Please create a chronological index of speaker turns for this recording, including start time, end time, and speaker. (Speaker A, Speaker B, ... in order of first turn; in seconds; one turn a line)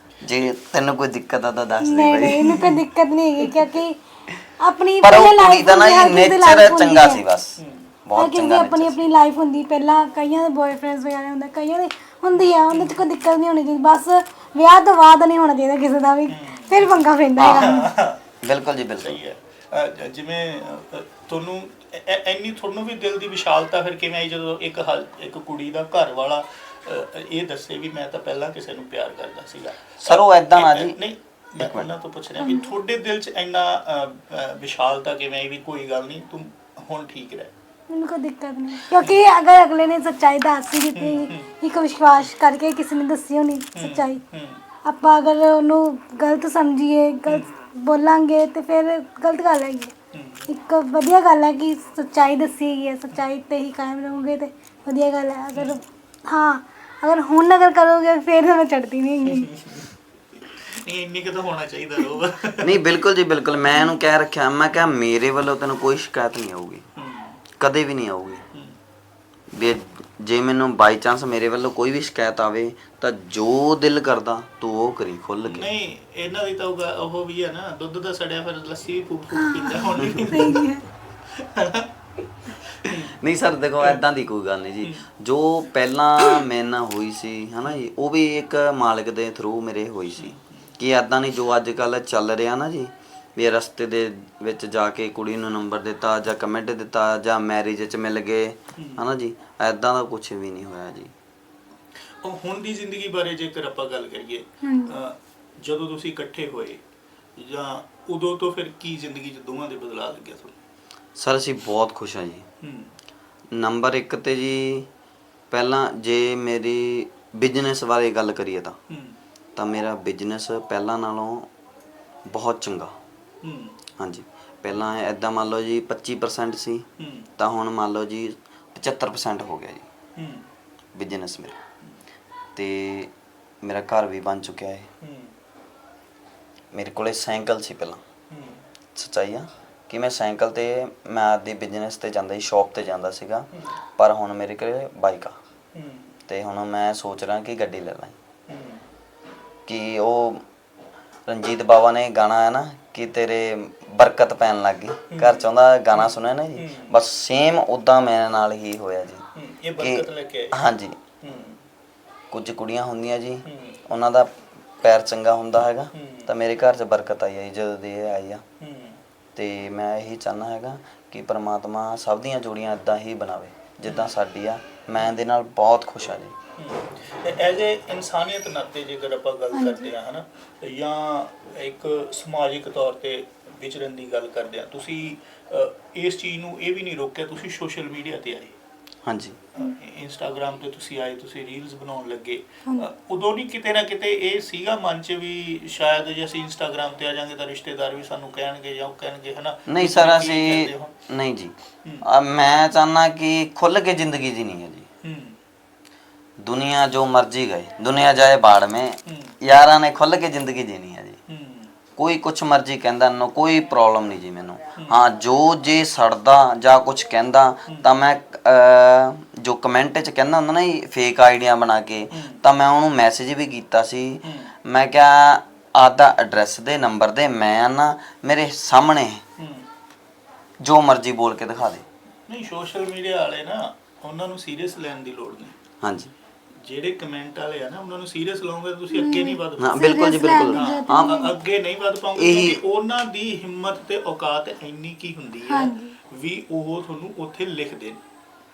Speaker A: 0.2-2.5
Speaker B: 1.8-4.0
Speaker B: 4.6-7.2
Speaker A: 5.0-9.0
Speaker C: 7.6-7.9
Speaker B: 8.1-17.9
Speaker C: 16.3-18.2
Speaker A: 17.4-17.8
Speaker A: 18.4-19.2
Speaker C: 19.0-37.5
Speaker A: 30.0-31.0
Speaker A: 31.6-31.9
Speaker B: 32.4-32.7
Speaker B: 37.9-44.2
Speaker C: 41.0-41.4
Speaker C: 43.8-44.6
Speaker B: 44.8-49.9
Speaker C: 50.1-50.5
Speaker B: 50.5-59.5
Speaker C: 60.8-62.8
Speaker A: 62.6-66.9
Speaker C: 67.0-67.3
Speaker A: 67.6-68.4
Speaker A: 69.5-75.7
Speaker C: 75.5-80.7
Speaker B: 79.3-80.8
Speaker C: 81.4-81.9
Speaker C: 82.9-83.1
Speaker A: 82.9-101.1
Speaker C: 102.2-105.1
Speaker B: 104.6-105.0
Speaker C: 105.6-106.8
Speaker C: 107.4-110.5
Speaker A: 111.2-112.5
Speaker C: 112.6-112.9
Speaker A: 113.5-114.9
Speaker A: 115.5-118.8
Speaker A: 119.6-121.5
Speaker A: 122.3-122.9
Speaker C: 123.4-123.7
Speaker A: 124.0-126.9
Speaker C: 127.0-127.2
Speaker A: 127.4-129.8
Speaker C: 130.2-130.4
Speaker A: 130.9-131.6
Speaker A: 132.6-133.1
Speaker A: 133.6-134.9
Speaker C: 135.0-135.3
Speaker A: 136.7-138.0
Speaker C: 138.3-138.6
Speaker A: 138.9-145.4
Speaker C: 145.8-146.1
Speaker A: 146.3-148.2
Speaker C: 148.5-148.8
Speaker A: 149.7-150.4
Speaker A: 151.3-159.2
Speaker C: 159.4-160.5
Speaker A: 159.8-161.0
Speaker C: 161.2-161.6
Speaker A: 162.3-168.4
Speaker C: 166.0-166.2
Speaker C: 168.6-169.0
Speaker A: 169.4-176.3
Speaker C: 176.6-188.5
Speaker B: 179.5-179.9
Speaker A: 189.1-189.4
Speaker C: 189.6-200.9
Speaker A: 199.7-204.9
Speaker C: 205.0-205.3
Speaker A: 206.4-211.2
Speaker C: 211.3-211.7
Speaker A: 212.0-229.2
Speaker A: 230.6-231.8
Speaker C: 232.3-235.5
Speaker A: 235.8-236.1
Speaker C: 236.7-248.0
Speaker B: 238.9-241.3
Speaker A: 239.6-241.2
Speaker A: 242.2-242.6
Speaker B: 245.5-246.0